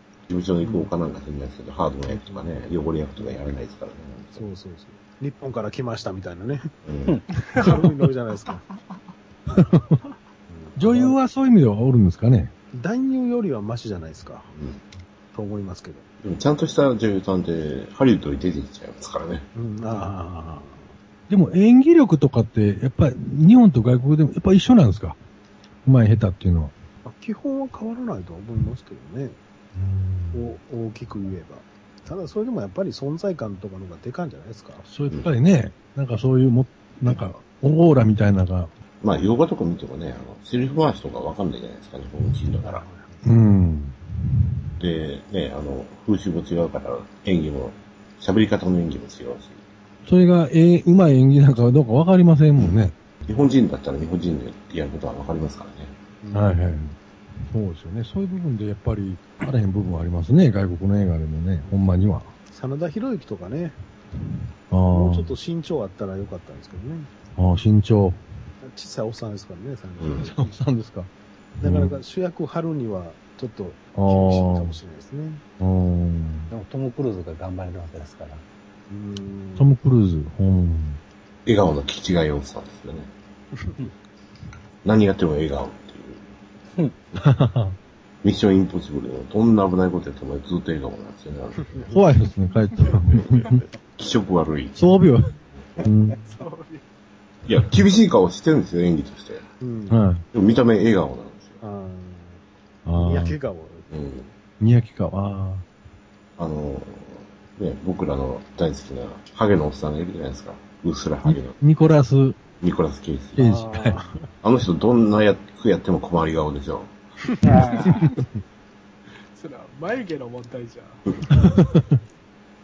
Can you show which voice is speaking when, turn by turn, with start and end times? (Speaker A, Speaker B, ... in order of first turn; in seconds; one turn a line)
Speaker A: 0.3-4.5
Speaker B: 0.6-0.9
Speaker B: 2.1-2.5
Speaker B: 3.1-3.4
Speaker B: 4.3-6.7
Speaker A: 6.8-7.2
Speaker B: 7.5-8.6
Speaker C: 9.5-10.0
Speaker B: 10.5-11.2
Speaker C: 10.8-12.5
Speaker B: 12.7-14.5
Speaker A: 14.6-14.8
Speaker B: 15.3-16.1
Speaker A: 16.2-19.4
Speaker B: 19.5-20.9
Speaker C: 21.3-25.2
Speaker C: 25.8-26.7
Speaker B: 27.0-29.4
Speaker C: 29.7-30.6
Speaker B: 30.3-34.9
Speaker C: 34.8-38.7
Speaker A: 39.0-42.8
Speaker B: 42.6-43.2
Speaker C: 43.2-44.0
Speaker A: 44.8-49.6
Speaker C: 50.0-52.9
Speaker A: 52.6-55.9
Speaker B: 56.2-56.6
Speaker C: 56.3-62.3
Speaker B: 62.5-63.8
Speaker C: 64.7-65.3
Speaker B: 64.9-67.1
Speaker C: 67.4-68.2
Speaker B: 68.6-70.5
Speaker A: 70.0-70.3
Speaker C: 70.2-72.0
Speaker B: 71.6-75.4
Speaker C: 73.9-74.8
Speaker C: 75.6-76.5
Speaker D: 76.5-78.4
Speaker B: 78.9-79.7
Speaker C: 79.6-81.0
Speaker A: 81.5-83.1
Speaker A: 84.8-86.2
Speaker C: 87.2-87.8
Speaker A: 88.2-91.9
Speaker B: 91.7-92.1
Speaker C: 91.9-93.6
Speaker A: 94.0-94.9
Speaker C: 94.8-96.2
Speaker E: 96.2-96.8
Speaker A: 97.5-99.5
Speaker B: 99.6-100.0
Speaker C: 99.9-100.2
Speaker A: 100.3-101.6
Speaker B: 101.6-102.4
Speaker C: 102.8-103.4
Speaker B: 103.0-103.9
Speaker A: 103.9-104.3
Speaker C: 104.6-105.6
Speaker A: 106.4-111.6
Speaker C: 111.2-112.4
Speaker A: 112.6-113.4
Speaker C: 113.4-114.0
Speaker B: 113.4-114.3
Speaker A: 114.4-116.9
Speaker D: 117.4-118.0
Speaker E: 117.8-118.1
Speaker C: 117.9-118.3
Speaker E: 119.3-121.0
Speaker C: 121.3-122.0